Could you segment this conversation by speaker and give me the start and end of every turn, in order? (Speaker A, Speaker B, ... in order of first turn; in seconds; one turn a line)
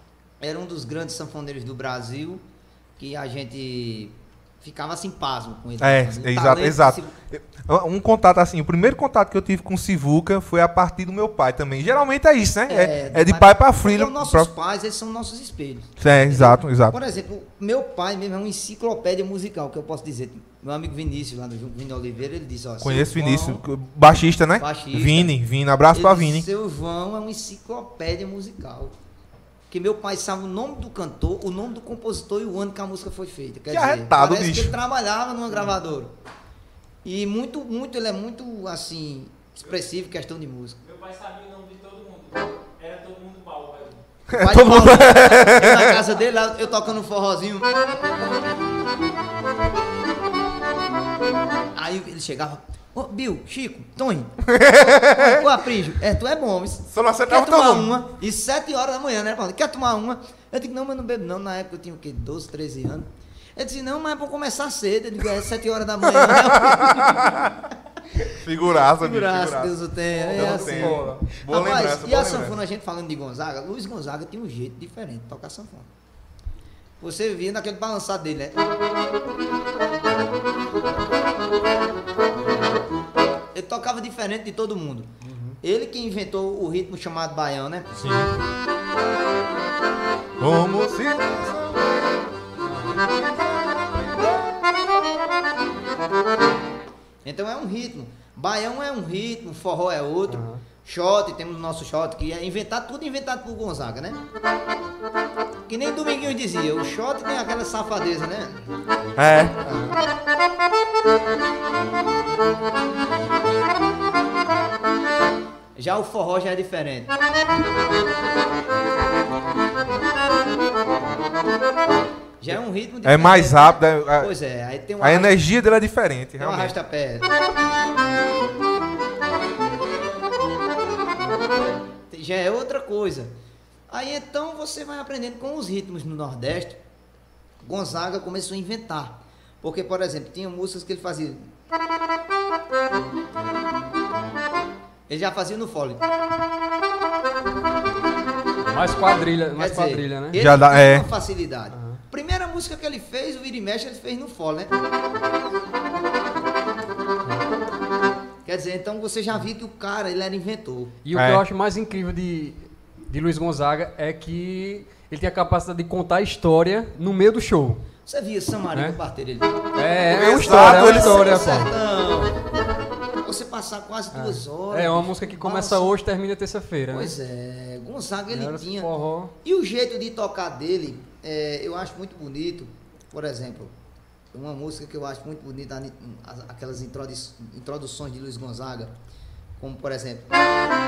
Speaker A: 0.4-2.4
Speaker A: 3.0-7.1
Speaker B: 5.8-14.5
Speaker A: 12.7-23.6
Speaker B: 16.0-17.0
Speaker B: 22.8-26.5
Speaker A: 24.6-25.3
Speaker A: 25.9-28.9
Speaker A: 29.7-36.1
Speaker B: 33.7-34.8
Speaker A: 37.0-40.8
Speaker C: 40.8-44.1
Speaker B: 44.3-46.0
Speaker A: 44.3-48.0
Speaker A: 51.7-67.4
Speaker B: 54.4-55.5
Speaker B: 56.9-58.0
Speaker B: 66.2-67.6
Speaker A: 68.2-75.9
Speaker B: 68.2-72.6
Speaker D: 70.3-71.2
Speaker A: 77.0-78.7
Speaker A: 83.5-88.0
Speaker D: 85.2-85.6
Speaker B: 88.0-88.4
Speaker B: 90.4-92.2
Speaker A: 94.1-94.7
Speaker A: 97.2-104.2
Speaker D: 100.3-100.6
Speaker A: 105.7-108.6
Speaker B: 109.2-109.8
Speaker A: 115.8-117.1
Speaker A: 122.4-125.4
Speaker B: 123.0-124.3
Speaker B: 125.0-126.7
Speaker A: 126.4-127.3
Speaker A: 132.1-133.3
Speaker A: 133.9-136.8
Speaker A: 137.6-141.5
Speaker A: 145.1-146.0
Speaker D: 148.7-150.4
Speaker A: 149.6-154.7
Speaker B: 150.3-151.1
Speaker D: 151.7-152.0
Speaker A: 158.4-160.9
Speaker D: 161.1-167.9
Speaker B: 161.2-161.4
Speaker A: 168.1-172.4
Speaker D: 168.7-169.0
Speaker D: 169.8-171.7
Speaker B: 170.1-171.4
Speaker A: 173.2-175.9
Speaker D: 174.1-177.2
Speaker A: 176.9-178.9
Speaker D: 178.3-179.3
Speaker A: 179.4-183.7
Speaker A: 184.3-188.9
Speaker A: 189.6-190.3